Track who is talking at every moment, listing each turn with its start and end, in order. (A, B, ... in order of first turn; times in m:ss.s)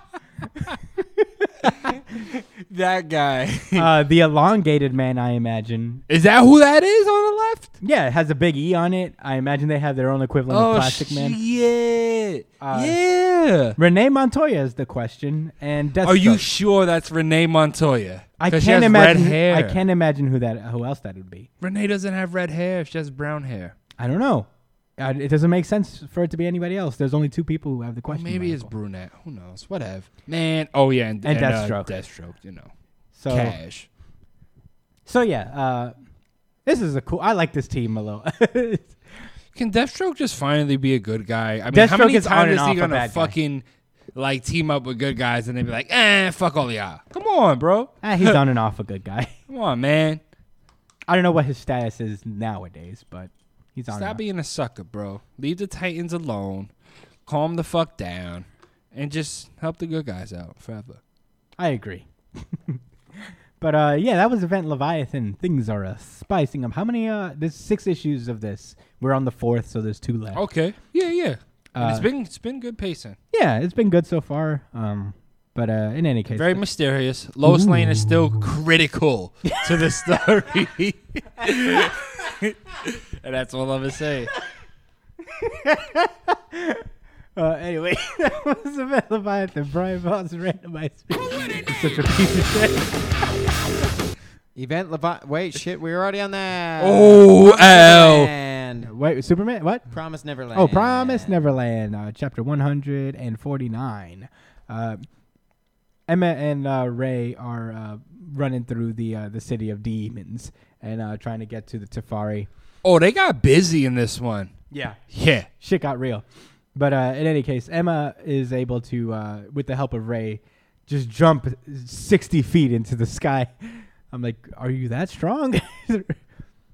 0:01.0-0:01.9 A
0:01.9-0:03.9 B
0:03.7-0:06.0 A
0:06.1-0:07.7 B
0:07.8-0:11.4 A
0:10.5-0:13.8 B
0:12.6-0:13.0 A
0:13.8-0:16.4 A
0:16.0-0:19.8 B
0:18.4-0:21.5 A
0:21.6-0:23.8 B
0:24.0-0:28.7 A
0:28.1-0:32.7 B
0:31.2-0:31.9 A
0:33.1-0:33.6 A
0:33.3-0:33.9 B
0:35.0-0:35.9 A
0:36.6-0:39.0 A
0:39.5-0:48.4 B
0:41.7-0:43.3 A
0:48.0-0:49.3 A
0:49.5-0:50.2 B
0:51.1-0:54.2 A
0:53.9-0:56.7 B
0:57.2-1:01.0 B
1:01.6-1:10.4 A
1:10.3-1:13.2 B
1:11.7-1:12.1 A
1:13.3-1:16.6 A
1:16.3-1:24.3 B
1:17.4-1:18.5 A
1:19.4-1:20.2 A
1:25.3-1:26.8 A
1:27.4-1:32.9 A
1:34.5-1:38.9 C
1:36.8-1:38.3 B
1:38.8-1:39.9 A
1:39.9-1:41.4 C
1:40.5-1:45.0 A
1:46.1-1:52.5 A
1:52.8-1:54.5 B
1:54.7-1:55.0 A
1:55.1-1:55.5 B
1:55.5-1:56.2 A
1:56.7-2:06.2 A